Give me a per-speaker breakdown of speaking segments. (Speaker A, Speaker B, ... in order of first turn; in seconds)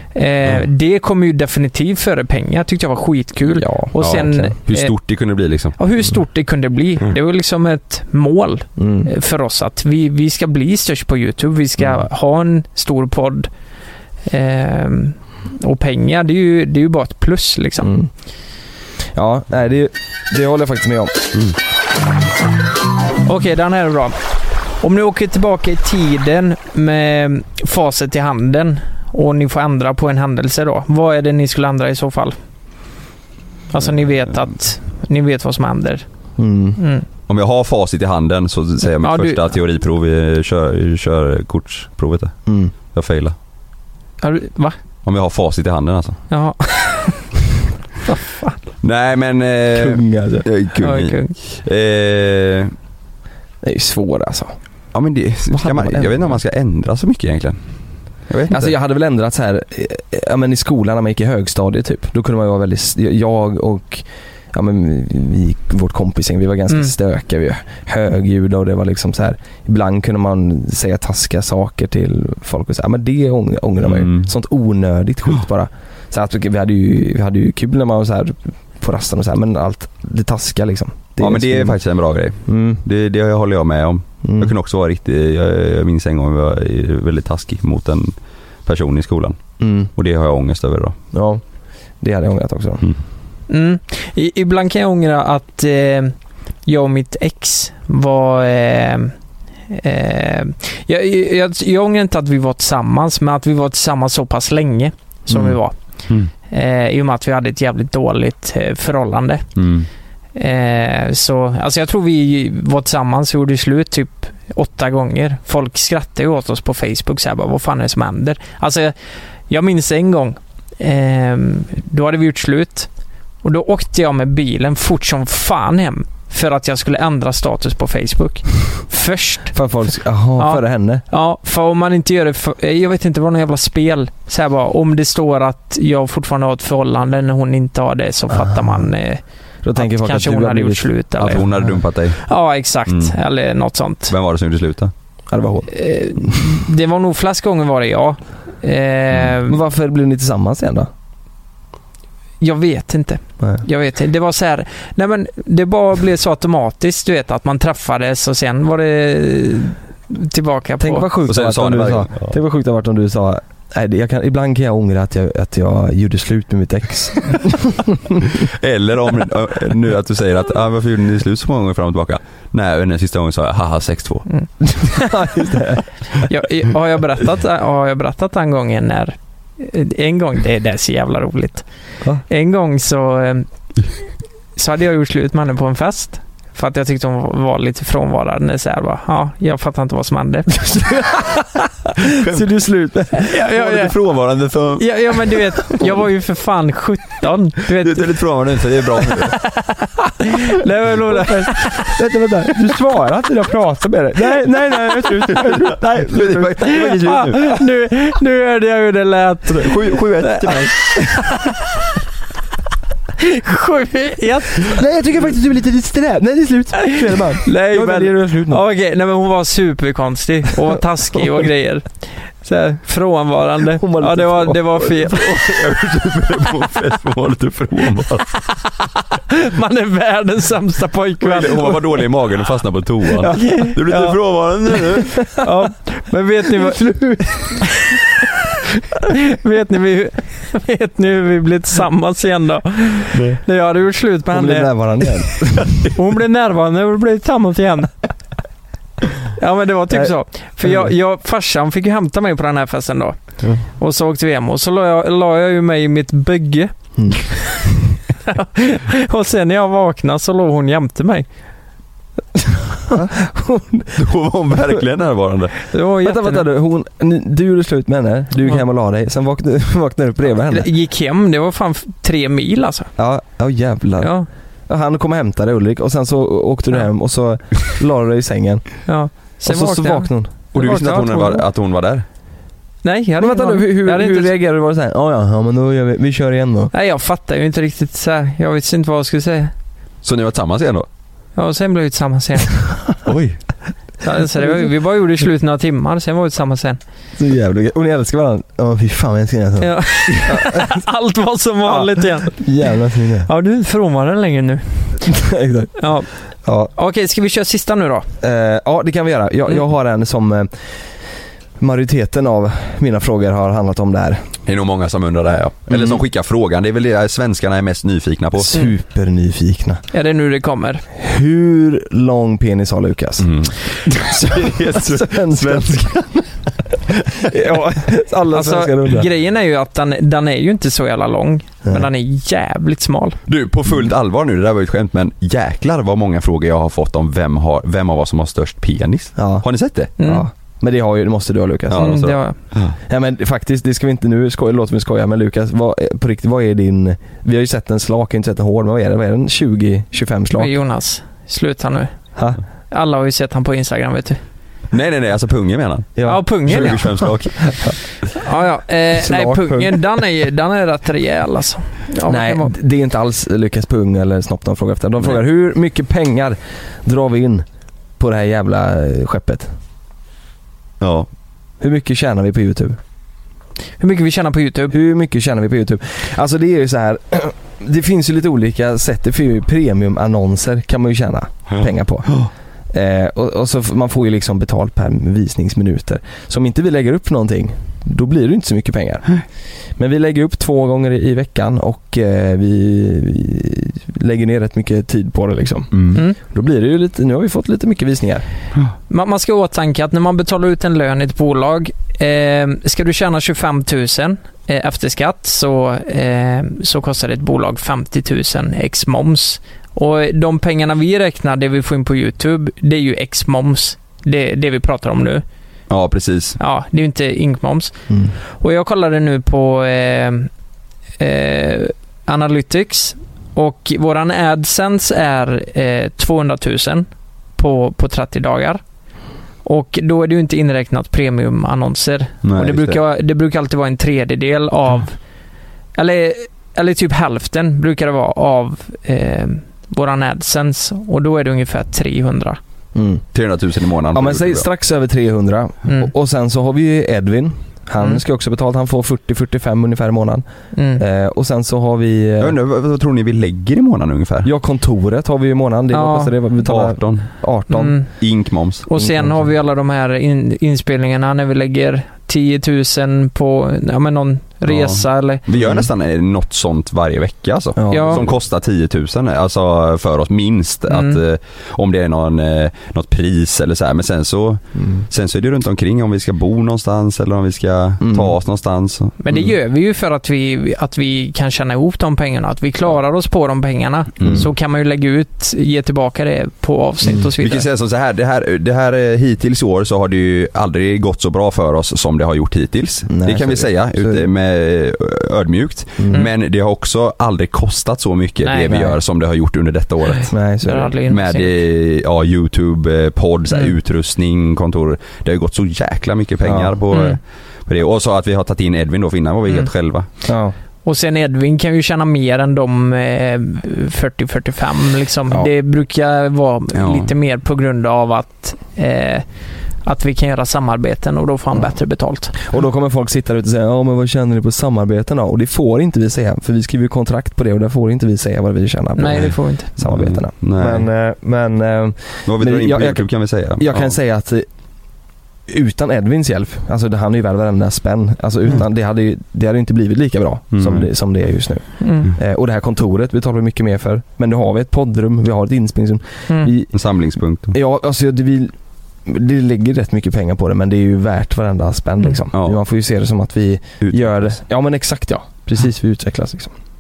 Speaker A: 0.1-4.9, 5.8-13.5, 14.2-17.9, 23.2-24.2, 24.8-32.4, 33.7-36.0, 36.8-37.0, 39.0-39.4, 44.2-44.8, 46.3-47.3, 48.0-48.5, 50.8-51.3, 93.5-99.1, 99.7-105.8, 106.5-109.5, 110.3-118.9, 119.5-122.9, 123.4-129.6, 130.4-139.2, 139.7-141.5, 142.2-144.1, 145.7-149.6, 152.4-161.1, 174.3-175.2, 176.3-181.7, 182.3-183.5, 184.6-191.1, 193.2-193.9, 194.8-198.2, 199.6-201.9, 206.6-211.6, 213.2-214.8, 217.4-225.3, 229.3-231.8, 233.3-234.2, 235.4-237.9, 239.1-245.4, 245.9-248.0, 249.3-257.6, 258.3-261.2, 265.7-266.5, 270.5-272.9, 274.0-274.3, 278.9-281.4, 282.8-284.3, 286.7-289.5, 291.4-292.7, 294.0-296.8, 299.6-302.5, 303.2-305.1, 305.8-306.1, 306.7-308.1, 319.9-320.8, 328.3-333.2, 340.0-340.3, 341.8-342.4, 350.4-351.9, 352.7-354.2, 356.1-357.1, 358.1-362.5, 373.8-374.7, 398.9-415.2, 416.4-417.7, 418.4-420.3, 421.0-428.6, 429.4-435.0, 435.7-442.4, 445.6-445.9, 450.5-450.8, 455.7-456.1, 457.5-457.9, 458.6-465.2, 467.7-468.0, 470.7-471.0, 479.0-487.5, 498.2-498.7, 500.4-501.3, 506.7-507.0, 510.6-519.0, 519.6-522.1, 528.7-529.5, 541.6-541.9
Speaker B: 3.5-4.5, 8.8-9.1, 17.8-18.1, 19.1-21.1, 36.4-36.8, 42.5-42.7, 49.7-50.5, 53.6-54.5, 55.5-56.3, 58.5-81.8, 82.5-82.8, 84.2-84.5, 89.6-89.9, 91.1-91.4, 92.0-92.8, 105.3-105.6, 129.5-131.0, 138.3-138.9, 139.6-141.8, 145.3-146.4, 149.4-150.9, 160.8-168.2, 174.6-175.8, 190.8-191.3, 192.3-193.3, 201.1-206.8, 214.7-218.6, 223.8-224.9, 233.2-233.7, 236.6-237.6, 244.3-245.9, 256.9-257.8, 262.4-264.0, 266.0-270.7, 273.0-274.1, 274.7-278.8, 279.4-280.3, 283.2-286.7, 297.2-300.8, 301.6-303.3, 305.1-305.8, 306.4-306.7, 308.2-310.7, 311.6-314.3, 315.7-316.0, 318.4-319.8, 320.9-323.3, 323.9-329.1, 339.2-342.0, 342.9-350.5, 355.9-356.9, 359.0-359.8, 362.0-367.4, 368.0-369.5, 371.6-372.8, 374.7-389.2, 389.8-398.2, 417.9-418.1, 442.7-443.0, 443.9-450.2, 450.8-452.4, 454.2-457.9, 458.7-459.3, 465.4-465.7, 467.6-468.2, 474.6-474.8, 477.8-478.2, 484.0-484.3, 492.9-494.1, 495.8-496.1, 500.1-500.7, 506.2-506.6, 510.0-510.3, 522.2-534.3, 535.3-546.6, 547.3-556.3
Speaker C: 4.0-5.8, 37.3-43.3, 45.0-46.2, 48.8-52.7, 54.9-57.6, 58.3-58.7, 73.8-74.3, 81.2-88.1, 88.6-89.4, 89.9-91.0, 109.5-109.9, 141.2-142.3, 142.9-143.2, 144.1-144.9, 161.3-162.3, 168.4-174.2, 192.1-192.4, 193.5-195.2, 197.8-199.4, 205.3-207.5, 209.6-210.9, 225.1-228.4, 231.2-235.3, 243.1-243.4, 263.9-265.6, 280.5-282.0, 290.0-290.9, 293.0-293.4, 314.4-318.5, 323.2-325.9, 327.0-327.3, 333.3-339.9, 341.7-342.8, 354.7-357.7, 370.8-371.1, 381.5-382.3, 395.7-396.0, 415.7-416.4, 432.2-432.8, 443.1-444.4, 452.2-454.3, 456.4-457.2, 458.0-458.6, 464.5-479.0, 484.0-484.3, 487.2-500.1, 500.9-509.9, 516.5-516.9, 529.6-530.6, 532.0-533.7, 540.3-540.6, 546.5-547.4, 552.1-552.4, 553.6-554.2